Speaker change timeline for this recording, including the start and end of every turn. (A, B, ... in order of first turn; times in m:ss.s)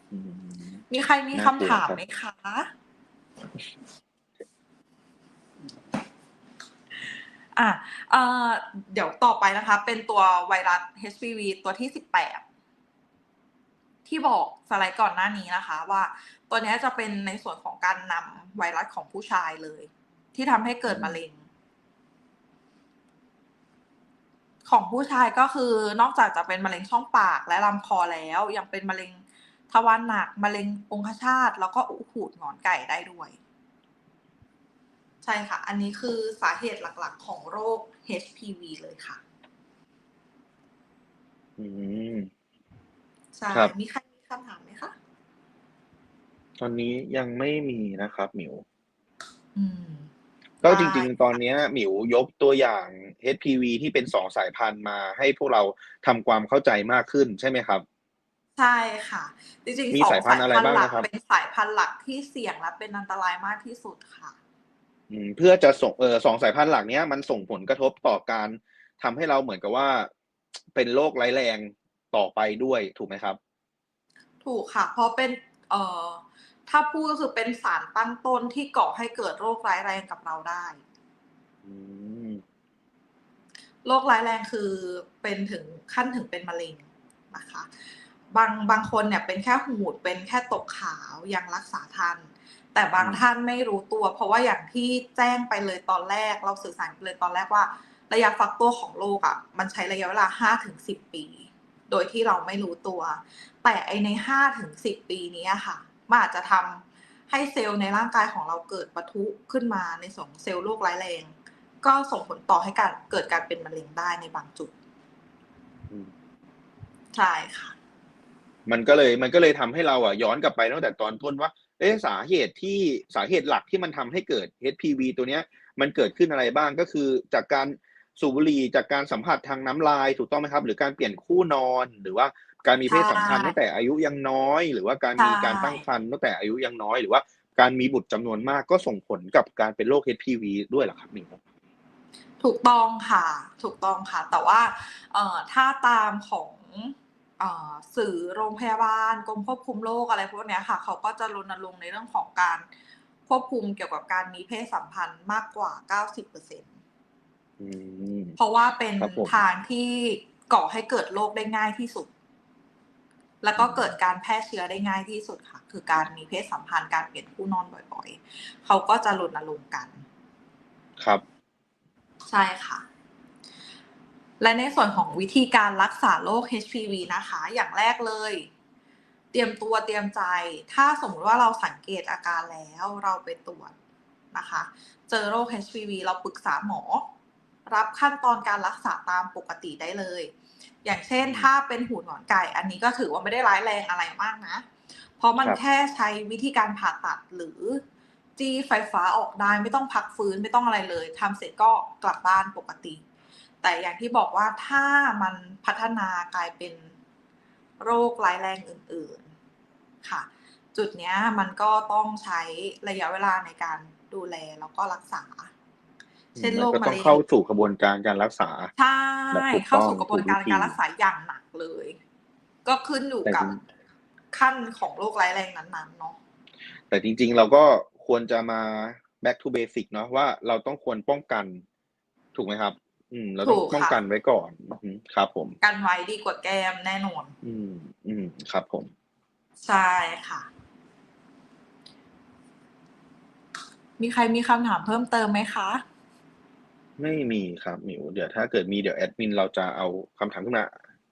0:00.1-0:00.8 A
0:00.9-0:02.7 B
0:01.3-0:02.0 A
0:07.6-0:12.4 B
0:14.1-0:21.4 B
0:20.9-0:21.2 A
0:24.7-0:33.4 B
0:35.2-0:39.2 B
0:41.6-0:42.3 A
0:43.4-0:45.0 B
0:46.6-0:48.6 A
0:49.6-0:50.1 B
0:50.6-0:51.1 B
0:50.6-0:57.8 A
0:58.6-1:04.4 B
0:59.9-1:01.1 A
1:05.1-1:10.1 A
1:10.7-1:13.4 A
1:14.4-1:20.8 B
1:21.6-1:22.4 A
1:23.8-1:27.7 B
1:28.3-1:54.7 B
1:33.0-1:33.2 A
1:57.1-1:57.8 B
1:58.7-2:21.4 A
2:12.9-2:13.6 B
2:15.2-2:15.8 B
2:22.4-2:32.7 B
2:33.3-2:36.7 B
2:37.6-2:38.4 A
2:38.4-2:42.1 B
2:39.0-2:39.4 A
2:43.4-2:50.0 B
2:43.6-2:43.9 A
2:51.0-2:51.2 A
2:52.3-2:52.8 B
2:54.4-2:58.5 B
2:59.3-3:03.8 B
3:04.3-3:07.0 B
3:07.7-3:10.3 B
3:10.8-3:14.7 B
3:11.2-3:11.5 A
3:15.2-3:17.8 B
3:18.4-3:23.0 B
3:23.6-3:26.9 B
3:27.8-3:29.3 B
3:30.0-3:35.5 B
3:36.4-3:38.7 A
3:36.4-3:37.2 B
3:38.8-3:42.0 B
3:39.3-3:40.8 A
3:42.6-3:43.6 B
3:43.2-3:43.6 A
3:44.3-3:46.2 B
3:46.9-3:51.6 A
3:52.4-3:55.6 A
3:53.4-3:54.0 B
3:55.6-3:57.3 B
3:57.4-3:58.9 A
3:59.6-4:00.5 B
4:04.0-4:05.8 B
4:07.0-4:10.7 A